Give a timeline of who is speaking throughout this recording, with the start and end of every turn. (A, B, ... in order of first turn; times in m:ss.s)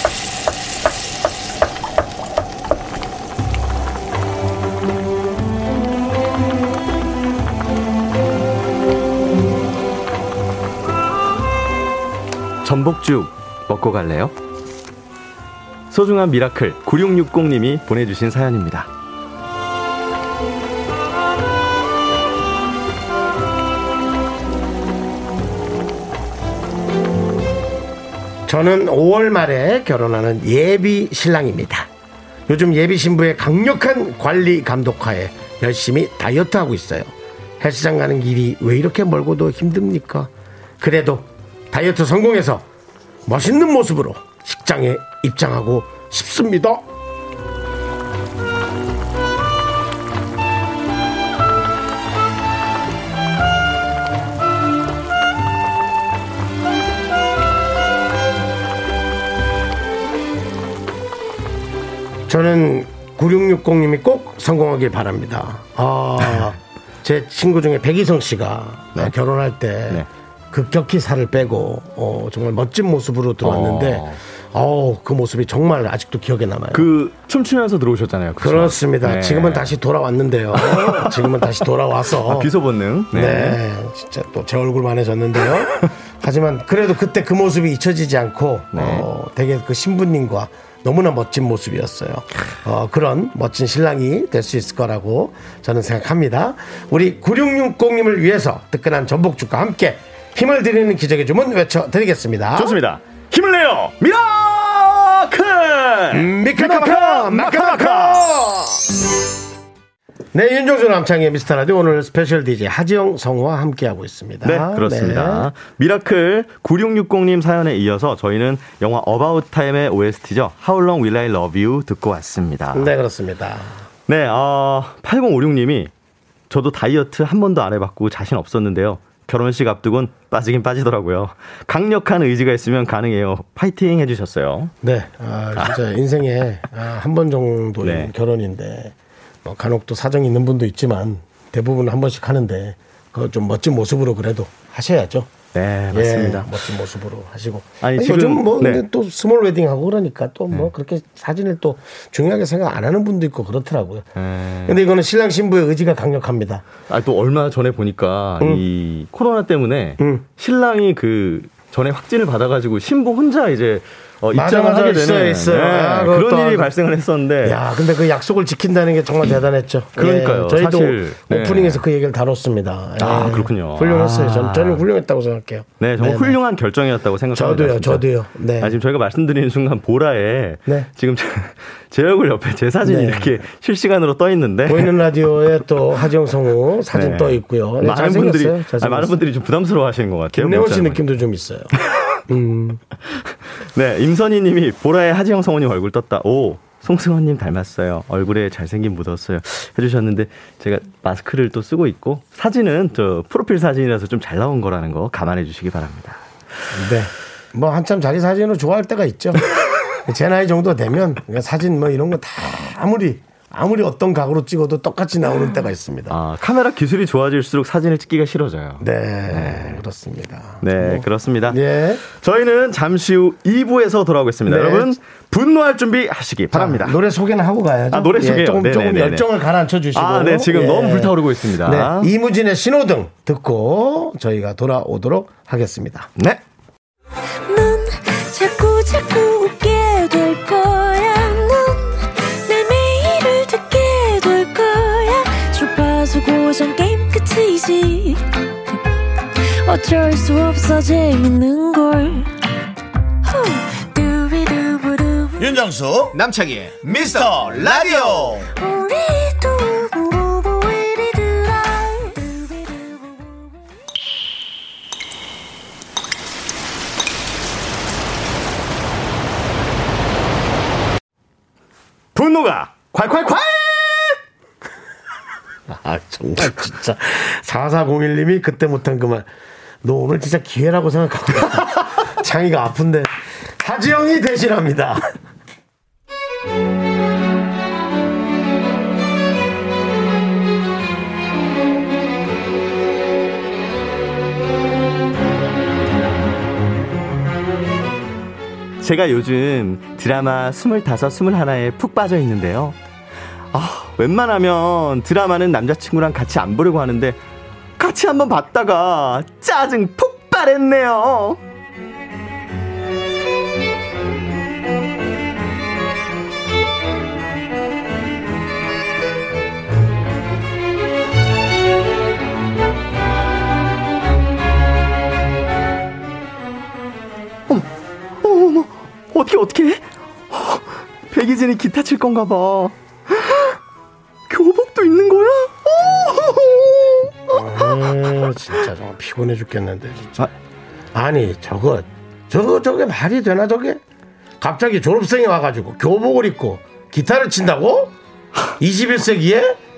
0:12.6-0:14.3 A
0:15.9-0:18.9 A
0:28.5-0:31.9 B
0:32.5-0:42.6 B
0:43.2-0:46.8 B
1:02.3-1:16.9 B
1:13.4-1:14.2 A
1:16.7-1:19.7 A
1:18.4-1:22.5 B
1:20.6-1:21.4 A
1:22.2-1:23.6 A
1:23.1-1:42.8 B
1:28.7-1:29.1 A
1:42.6-1:48.3 A
1:46.1-1:48.8 B
1:50.3-1:55.5 B
1:54.4-2:02.9 A
2:02.7-2:03.9 B
2:04.1-2:05.9 A
2:06.5-2:14.7 A
2:14.8-2:25.3 B
2:17.8-2:18.1 A
2:25.5-2:26.5 A
2:25.9-2:34.1 B
2:27.8-2:28.8 A
2:34.2-2:34.8 A
2:34.7-2:36.7 B
2:36.9-2:47.6 A
2:40.0-2:40.2 B
2:44.3-2:46.7 B
2:47.4-2:56.4 B
2:50.0-2:51.8 A
2:53.0-2:54.8 A
2:55.8-2:58.1 A
2:57.3-2:58.8 B
2:58.6-3:05.0 A
3:02.8-3:03.4 B
3:04.7-3:09.2 B
3:06.9-3:11.0 A
3:10.3-3:11.7 B
3:12.3-3:12.8 B
3:13.1-3:26.2 A
3:26.7-3:29.4 B
3:30.0-3:36.2 B
3:36.1-3:39.8 A
3:38.8-3:42.0 B
3:40.6-3:47.0 A
3:44.5-3:45.0 B
3:46.5-3:56.1 B
3:47.9-3:49.3 A
3:49.9-3:52.1 A
3:56.2-3:56.4 A
3:57.5-4:08.2 C
4:09.4-4:12.3 C
4:13.2-4:15.5 C
4:15.6-4:18.5 D
4:18.6-4:23.1 C
4:32.2-4:34.2 A
4:35.7-4:39.3 B
4:39.8-4:45.1 B
4:58.8-5:02.8 A
5:03.5-5:07.2 A
5:07.8-5:11.4 A
5:28.2-5:33.6 A
5:34.3-5:38.6 A
5:37.3-5:40.3 B
5:40.9-5:43.8 B
5:44.4-5:47.9 B
5:48.6-5:49.6 B